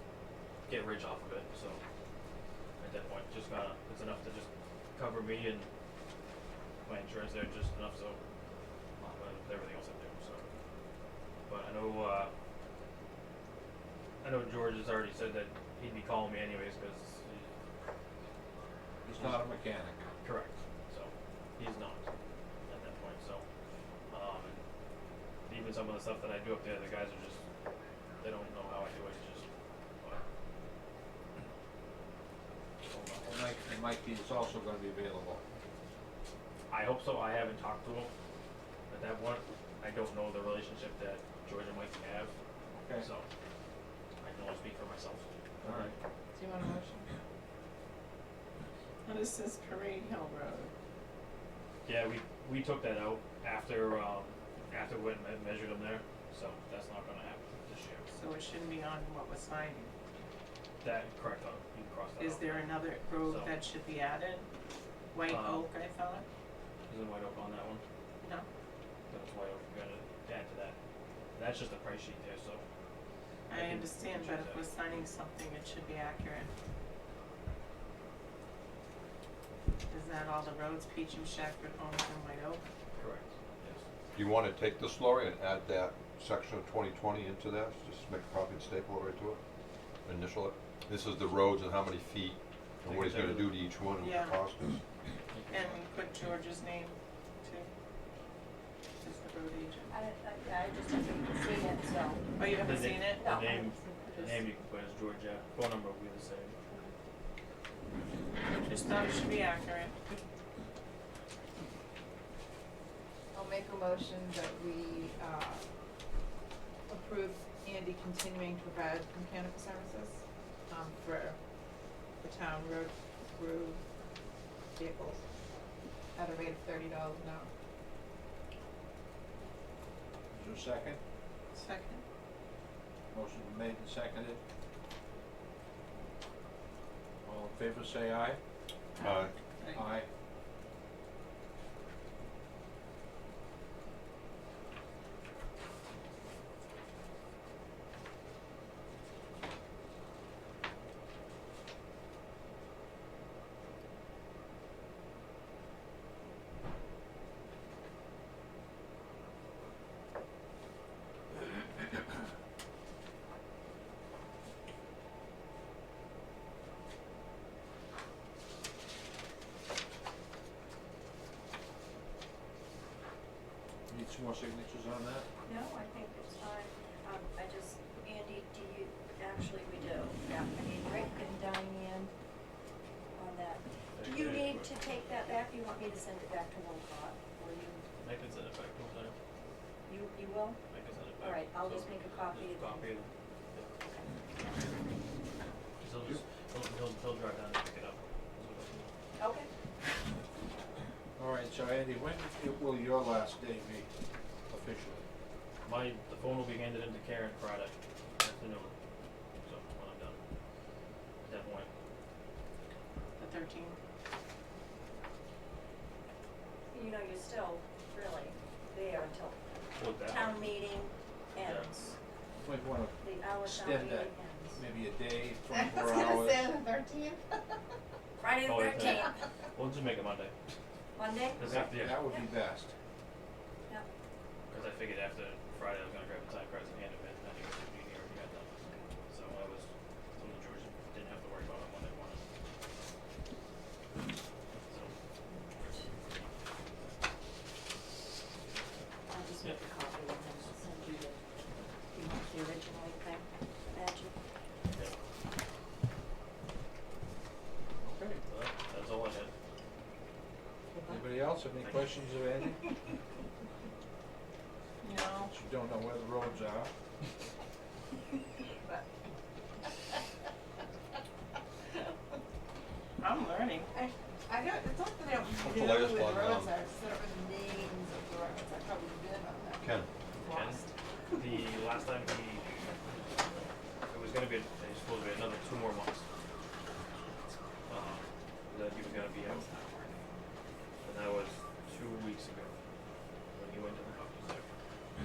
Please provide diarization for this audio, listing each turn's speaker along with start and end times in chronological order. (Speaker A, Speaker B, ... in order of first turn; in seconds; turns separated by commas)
Speaker A: 0.7-1.8, Speaker A: 2.8-5.7, Speaker A: 6.8-8.2, Speaker A: 9.0-10.5, Speaker A: 11.5-12.3, Speaker A: 14.2-17.5, Speaker B: 19.1-20.0, Speaker A: 19.2-19.4, Speaker A: 20.2-22.1, Speaker A: 22.7-23.4, Speaker A: 24.1-24.6, Speaker A: 25.5-27.4, Speaker A: 28.2-29.5, Speaker A: 32.9-33.5, Speaker B: 33.3-35.4, Speaker A: 36.7-38.1, Speaker A: 38.9-42.3, Speaker B: 42.7-43.1, Speaker A: 43.0-43.3, Speaker A: 44.2-45.9, Speaker B: 45.6-45.9, Speaker C: 46.3-47.1, Speaker D: 49.0-50.7, Speaker A: 51.9-58.1, Speaker D: 58.1-59.9, Speaker A: 60.8-63.5, Speaker D: 62.2-64.5, Speaker D: 65.1-66.2, Speaker A: 65.3-65.7, Speaker A: 66.9-67.8, Speaker D: 68.2-68.5, Speaker A: 69.1-70.8, Speaker A: 71.4-72.6, Speaker D: 73.5-76.5, Speaker A: 73.5-74.7, Speaker D: 79.9-82.6, Speaker A: 83.0-83.8, Speaker E: 84.2-89.4, Speaker E: 90.0-94.8, Speaker A: 92.8-93.5, Speaker D: 94.0-94.4, Speaker A: 95.3-95.8, Speaker D: 95.5-97.7, Speaker D: 99.0-99.9, Speaker F: 99.9-102.2, Speaker D: 102.4-103.2, Speaker A: 102.6-106.6, Speaker F: 103.2-104.3, Speaker D: 108.7-110.0, Speaker C: 113.3-115.6, Speaker C: 116.9-121.4, Speaker C: 122.2-123.8, Speaker C: 124.8-125.2, Speaker C: 126.2-127.5, Speaker B: 130.3-131.0, Speaker D: 131.5-132.0, Speaker B: 133.1-134.4, Speaker B: 137.2-138.4, Speaker E: 139.0-139.3, Speaker B: 139.7-140.1, Speaker B: 173.9-175.3, Speaker F: 175.4-182.1, Speaker F: 183.2-187.8, Speaker A: 183.9-184.7, Speaker A: 188.0-189.2, Speaker F: 189.9-190.6, Speaker A: 190.7-193.7, Speaker F: 191.2-192.9, Speaker F: 193.8-194.1, Speaker A: 195.8-198.9, Speaker F: 199.2-199.5, Speaker B: 201.2-203.9, Speaker B: 204.5-205.1, Speaker A: 205.7-208.7, Speaker A: 209.4-210.2, Speaker A: 211.3-211.7, Speaker D: 213.2-213.8, Speaker F: 216.7-219.4, Speaker A: 219.8-220.4, Speaker F: 220.1-221.9, Speaker A: 221.4-221.7, Speaker B: 222.4-226.5, Speaker F: 223.0-224.6, Speaker C: 225.5-227.5, Speaker F: 228.2-229.2, Speaker A: 228.4-230.3, Speaker F: 230.9-231.4, Speaker A: 231.4-232.1, Speaker B: 231.4-232.7, Speaker A: 234.5-238.5, Speaker F: 238.7-238.9, Speaker A: 239.1-242.2, Speaker A: 244.7-244.9, Speaker F: 245.3-245.9, Speaker F: 249.1-251.2, Speaker F: 251.9-254.2, Speaker A: 254.7-254.9, Speaker B: 257.8-258.2, Speaker A: 258.3-259.3, Speaker B: 260.9-262.7, Speaker D: 264.8-265.3, Speaker B: 265.2-266.7, Speaker D: 273.0-273.7, Speaker C: 273.7-280.7, Speaker E: 275.4-276.6, Speaker E: 279.6-279.9, Speaker A: 280.2-280.6, Speaker A: 281.1-282.5, Speaker A: 283.4-286.1, Speaker A: 287.7-289.5, Speaker C: 289.3-289.8, Speaker A: 290.8-292.6, Speaker A: 293.4-294.5